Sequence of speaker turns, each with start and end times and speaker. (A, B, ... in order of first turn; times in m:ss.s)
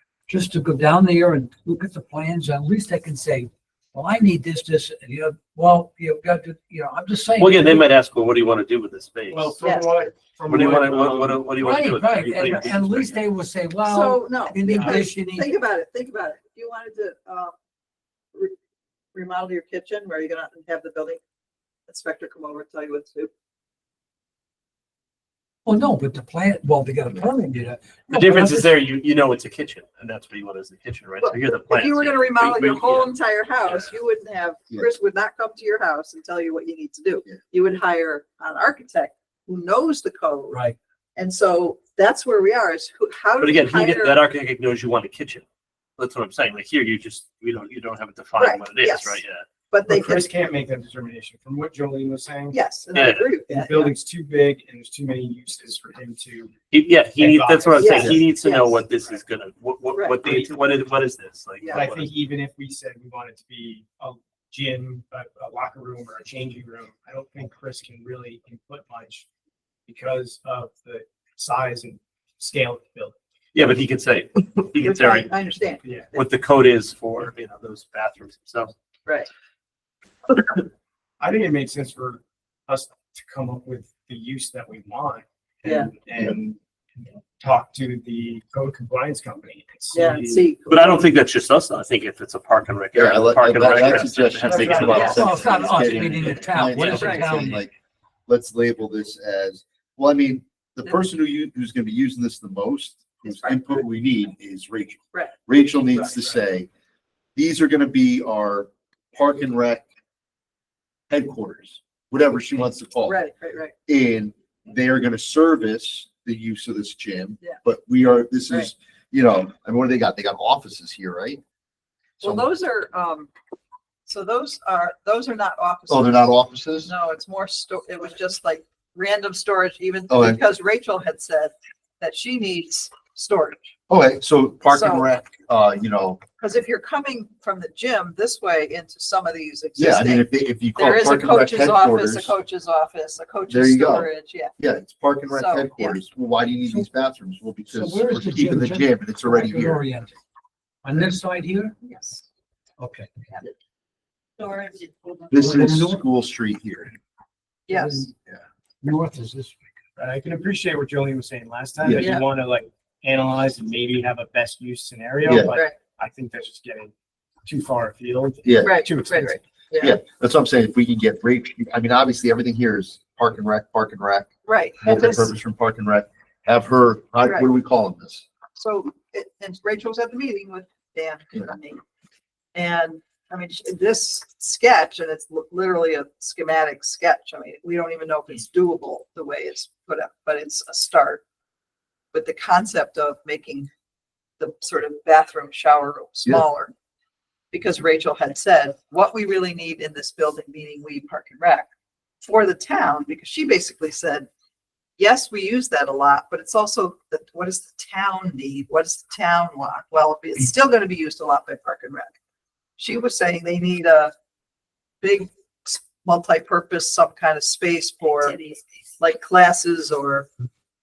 0:00.3-0:07.9 A
0:07.4-0:09.6 B
0:09.3-0:11.5 C
0:09.6-0:10.1 D
0:10.5-0:13.2 B
0:11.6-0:15.5 A
0:13.8-0:17.5 D
0:14.6-0:15.0 C
0:19.1-0:21.2 D
0:21.9-0:23.3 D
0:25.6-0:28.7 A
0:28.1-0:33.9 B
0:31.2-0:40.6 D
0:40.5-0:40.8 A
0:41.2-0:44.2 D
0:43.4-0:45.4 B
0:46.0-0:49.5 B
0:48.4-0:50.3 D
0:49.8-0:52.6 C
0:52.5-0:53.9 D
0:52.9-0:53.3 B
0:53.4-0:56.6 C
0:56.7-1:02.1 B
0:57.2-0:58.2 C
0:57.8-0:58.8 D
0:59.9-1:00.2 D
1:00.2-1:00.5 C
1:01.6-1:01.8 D
1:01.7-1:09.2 C
1:09.8-1:13.2 C
1:13.5-1:15.4 B
1:14.8-1:16.3 D
1:15.8-1:16.1 C
1:16.1-1:18.7 B
1:21.2-1:30.5 C
1:25.6-1:25.9 D
1:29.9-1:31.1 D
1:30.7-1:36.3 B
1:32.9-1:37.7 E
1:34.4-1:35.2 C
1:34.8-1:35.3 D
1:34.9-1:37.6 A
1:36.9-1:37.3 D
1:38.3-1:46.7 E
1:43.3-1:43.8 D
1:47.4-1:49.8 E
1:51.1-1:53.2 E
1:53.0-1:53.7 D
1:53.9-2:01.4 E
2:02.2-2:02.5 E
2:02.2-2:03.3 D
2:04.1-2:13.7 D
2:05.9-2:06.9 E
2:10.1-2:10.4 E
2:13.9-2:16.2 E
2:14.7-2:15.1 D
2:16.4-2:24.5 D
2:19.8-2:22.3 E
2:23.5-2:29.8 E
2:25.3-2:26.0 D
2:27.7-2:30.2 A
2:30.8-2:31.7 A
2:31.8-2:32.2 D
2:32.8-2:33.1 A
2:34.4-2:35.2 D
2:35.3-2:36.9 E
2:35.3-2:36.0 A
2:37.7-2:38.1 D
2:37.7-2:38.1 A
2:38.8-2:39.6 A
2:40.0-2:46.9 C
2:41.8-2:42.2 E
2:45.2-2:45.5 E
2:45.4-2:45.8 D
2:47.4-2:49.4 C
2:48.4-2:48.8 E
2:48.6-2:50.0 D
2:49.8-2:54.3 E
2:54.4-2:55.3 D
2:54.8-2:58.3 E
2:58.5-3:01.8 D
3:02.5-3:11.2 D
3:12.1-3:13.7 D
3:14.4-3:16.7 D
3:17.5-3:21.7 D
3:22.2-3:24.3 D
3:25.0-3:32.1 D
3:32.8-3:34.1 D
3:35.0-3:40.3 D